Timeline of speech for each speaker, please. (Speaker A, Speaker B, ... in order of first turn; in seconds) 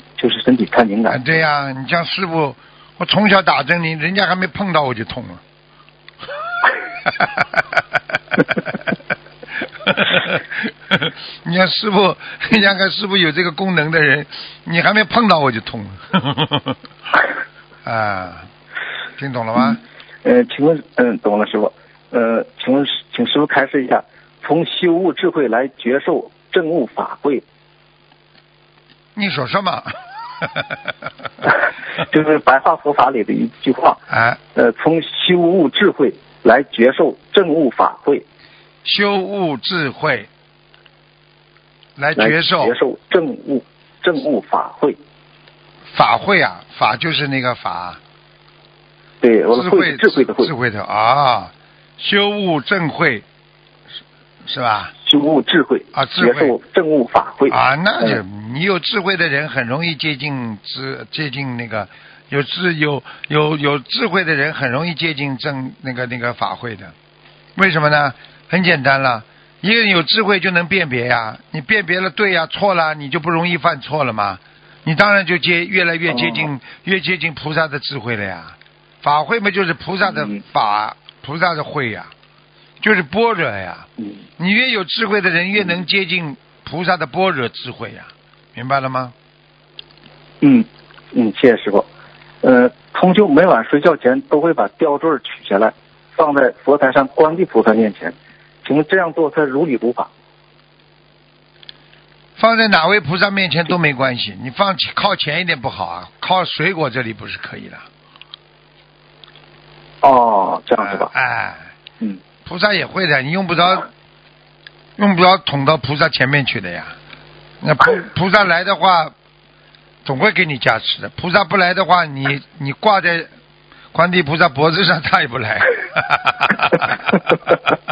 Speaker A: 0.2-1.3, 19.6-27.4, 32.0-34.0, 34.5-38.2, 42.2-45.0, 49.2-50.5, 55.0-58.2, 76.1-76.5, 80.1-80.4, 84.0-84.2, 90.4-91.9, 92.4-100.1, 110.0-111.1
Speaker B: 1.1-5.4, 7.0-7.8, 8.4-8.8, 9.8-16.8, 17.9-18.5, 19.2-19.8, 29.1-30.9, 34.1-34.4, 38.8-40.3, 42.0-42.8, 45.9-48.0, 49.5-53.2, 54.4-54.9, 55.9-56.5, 57.5-66.9, 67.6-82.1, 82.8-89.1, 102.4-107.9, 110.8-111.7, 112.5-113.9, 115.0-117.0, 117.6-119.1, 120.0-123.3, 123.9-127.6